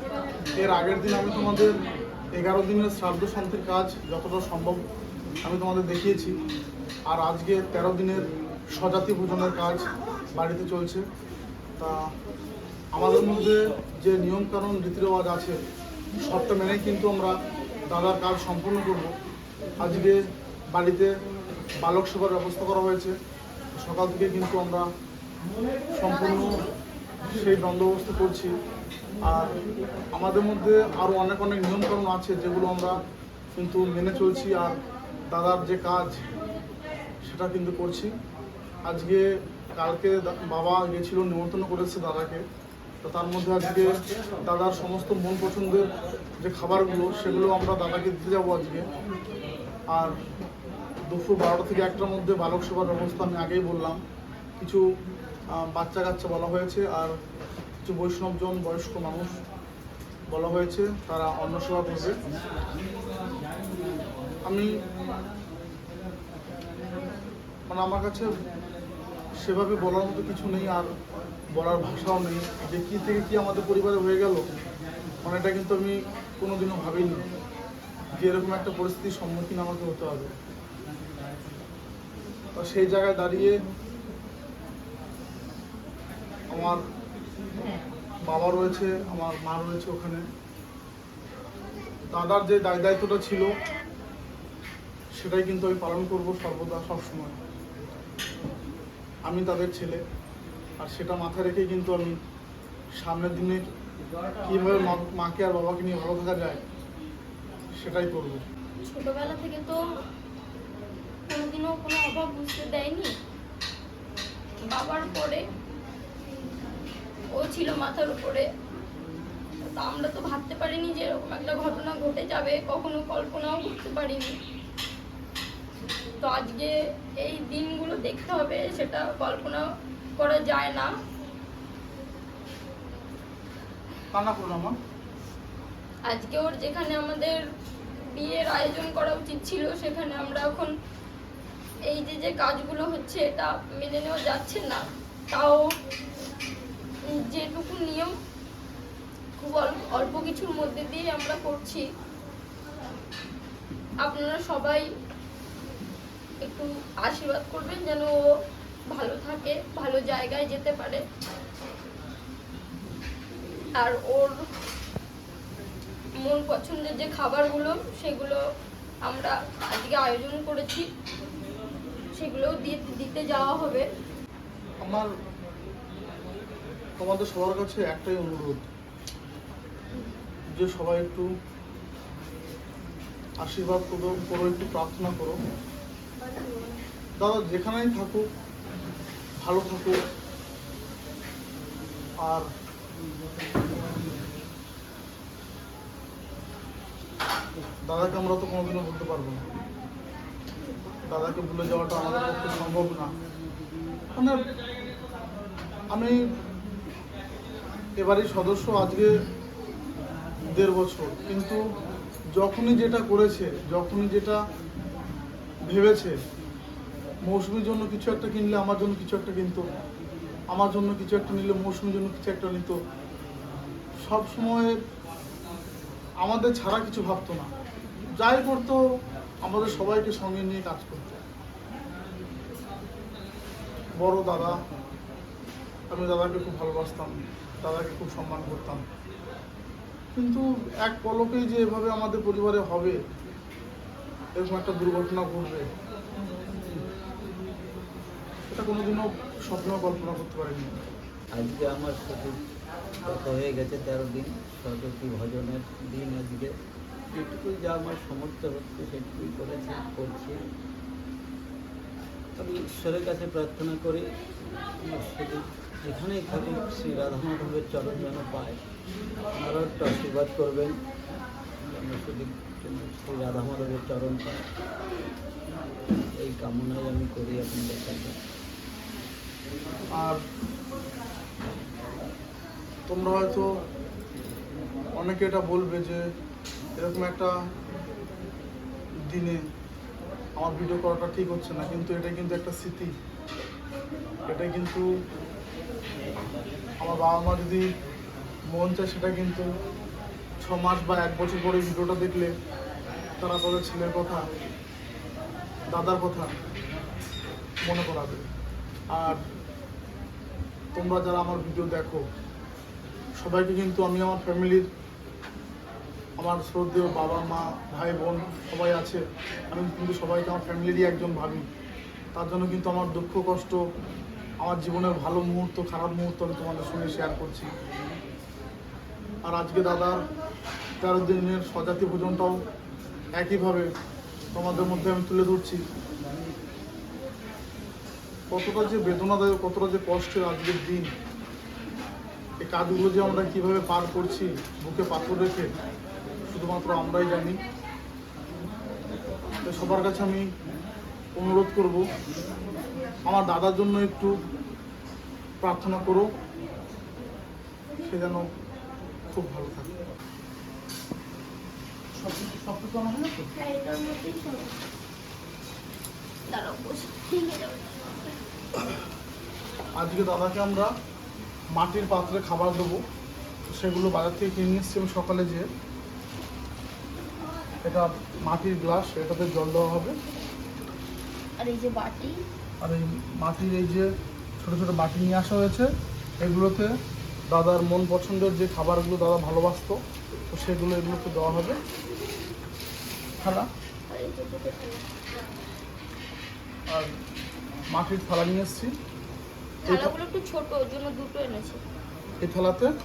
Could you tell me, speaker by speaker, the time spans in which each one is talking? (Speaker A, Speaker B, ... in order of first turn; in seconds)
Speaker A: 0.6-1.7, 2.4-4.8, 5.5-6.3, 7.1-11.0, 12.9-15.6, 16.1-17.4, 17.9-19.1, 19.8-20.2, 20.7-21.1, 21.8-23.1, 23.8-24.9, 26.0-26.5, 27.3-28.5, 29.2-29.5, 30.1-33.0, 33.6-34.8, 35.3-36.2, 37.3-38.1, 38.9-39.2, 39.8-42.4, 43.0-43.9, 44.4-45.9, 46.4-48.9, 51.1-54.0, 55.6-57.1, 57.8-59.3, 60.3-62.2, 67.7-68.3, 69.4-70.9, 71.6-74.4, 75.2-77.2, 78.1-80.3, 82.6-83.5, 86.5-86.8, 88.3-90.2, 92.1-93.5, 95.2-97.4, 99.3-100.0, 100.8-102.2, 103.0-103.6, 104.4-106.6, 107.8-108.4, 134.1-134.8, 174.8-175.1, 177.0-178.7, 180.6-181.3, 183.4-185.4, 187.2-188.2, 189.4-190.0, 197.9-199.4, 201.1-203.1, 204.2-204.4, 208.0-209.1, 210.5-211.6, 212.4-214.4, 215.7-216.2, 217.3-219.6, 220.5-222.8, 224.0-224.8, 226.2-227.5, 228.2-228.8, 229.4-231.2, 234.0-234.6, 235.9-238.8, 240.2-243.0, 244.4-245.7, 248.5-250.8, 280.0-280.2, 282.9-283.5, 285.0-286.0, 286.8-287.3, 289.1-289.4, 290.4-292.9, 294.3-294.9, 296.8-297.7, 298.5-299.5, 300.4-302.3, 303.2-304.2, 305.7-306.4, 307.6-308.2, 308.9-309.2, 310.8-312.0, 313.2-314.6, 316.2-321.5, 322.1-323.6, 324.4-327.5, 329.3-330.1, 330.8-332.4, 333.2-333.7, 334.3-335.6, 338.3-340.9, 342.4-345.5, 346.3-347.4, 349.4-350.3, 351.2-351.8, 353.1-354.1, 355.4-356.1, 357.8-358.2, 359.1-359.8, 362.0-363.3, 369.8-370.7, 371.6-372.8, 373.5-375.4, 377.6-380.0, 382.6-383.9, 384.4-385.7, 386.2-386.7, 387.3-389.8, 390.3-391.6, 393.2-393.5, 397.7-398.7, 402.2-402.7
Speaker B: 108.8-109.8, 111.3-113.1, 114.7-115.4, 117.4-118.5, 119.8-124.3, 126.2-129.6, 130.2-130.9, 136.1-137.4, 138.1-140.7, 141.9-145.6, 147.1-148.1, 149.4-151.8, 154.0-154.8, 156.4-158.1, 158.9-161.0, 163.8-164.4, 166.2-168.4, 169.1-170.9, 172.2-173.8, 186.2-186.8, 363.4-364.6, 366.3-368.1, 381.4-382.2, 393.9-394.9, 399.6-401.6
Speaker C: 251.3-252.4, 253.1-256.5, 257.1-260.4, 262.4-264.2, 264.8-268.6, 269.3-270.8, 271.8-274.5, 276.2-278.2